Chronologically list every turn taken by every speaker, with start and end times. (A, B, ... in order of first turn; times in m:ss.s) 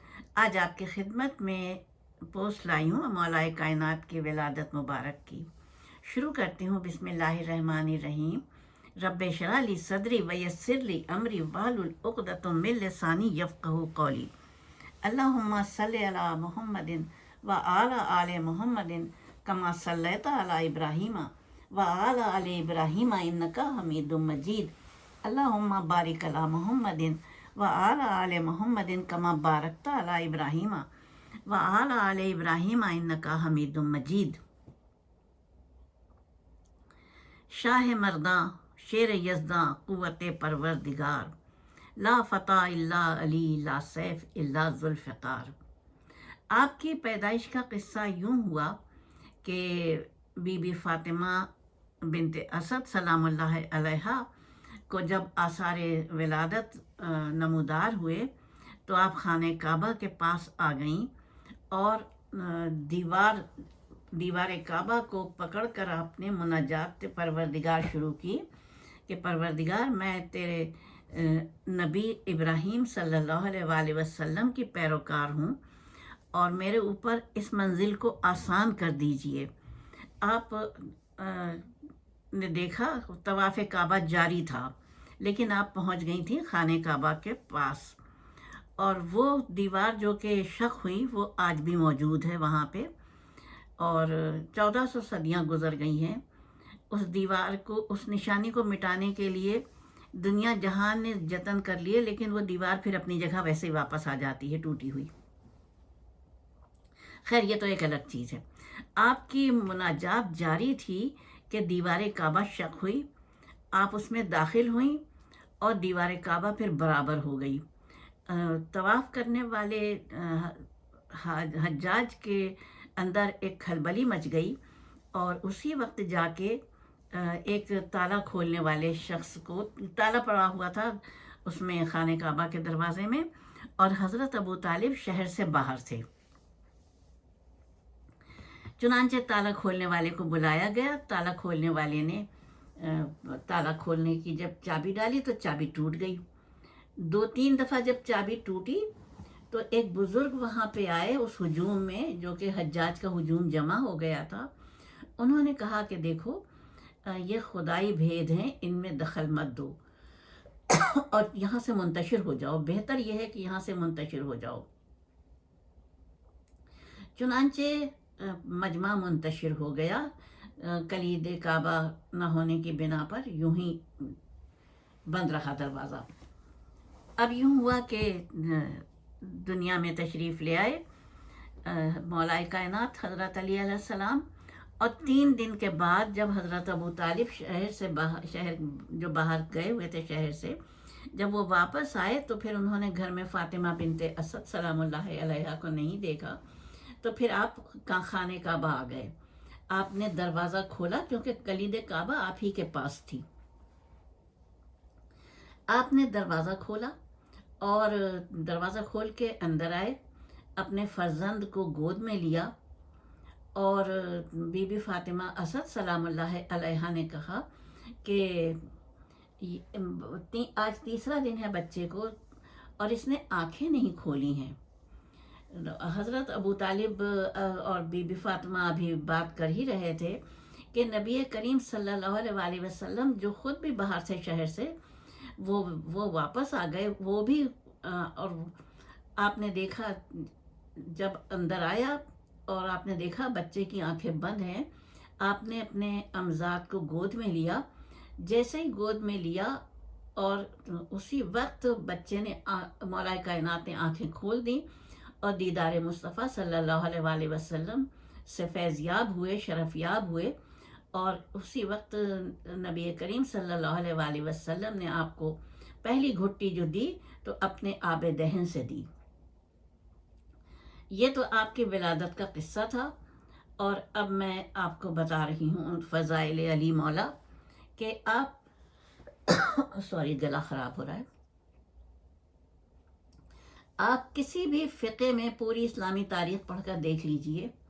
0:00.4-0:05.5 A
0:06.0-0:08.4 A
0:09.0-0:14.3 A
0:15.0-0:24.7 A
0:25.2-0:30.9 A
0:31.5-0:34.4 A
0:37.5-0:41.3 A
0:42.0-0:45.6 A
0:46.5-0:48.8 A
0:49.4-0:51.5 A
0:52.0-0:54.3 A
0:54.9-0:58.3 A
0:58.9-1:01.1 A
1:01.7-1:03.5 A
1:04.1-1:08.5 A
1:09.1-1:15.6 A
1:16.3-1:19.5 A
1:20.2-1:21.7 A
1:22.3-1:28.0 A
1:28.8-1:32.9 A
1:33.8-1:36.2 A
1:36.9-1:45.1 A
1:47.3-1:53.1 A
1:53.7-1:55.0 A
1:55.6-1:57.6 A
1:58.3-2:04.6 A
2:05.1-2:06.6 A
2:07.1-2:16.1 A
2:18.8-2:22.3 A
2:22.8-2:26.2 A
2:27.0-2:28.9 A
2:29.5-2:34.5 A
2:35.2-2:36.4 A
2:37.0-2:39.8 A
2:40.7-2:44.7 A
2:47.2-2:54.2 A
2:55.1-2:56.1 A
2:57.2-3:00.8 A
3:01.6-3:04.3 A
3:04.8-3:19.1 A
3:19.7-3:23.2 A
3:25.7-3:26.9 A
3:27.6-3:30.0 A
3:30.6-3:32.5 A
3:33.6-3:37.5 A
3:38.0-3:38.7 A
3:39.4-3:42.2 A
3:42.8-3:44.6 A
3:45.5-3:50.2 A
3:50.7-3:58.6 A
3:59.2-4:04.7 A
4:05.2-4:07.6 A
4:08.2-4:09.6 A
4:10.2-4:14.7 A
4:15.2-4:20.4 A
4:20.9-4:28.9 A
4:30.9-4:32.9 A
4:33.6-4:37.1 A
4:37.8-4:38.4 A
4:39.3-4:41.1 A
4:43.8-4:47.5 A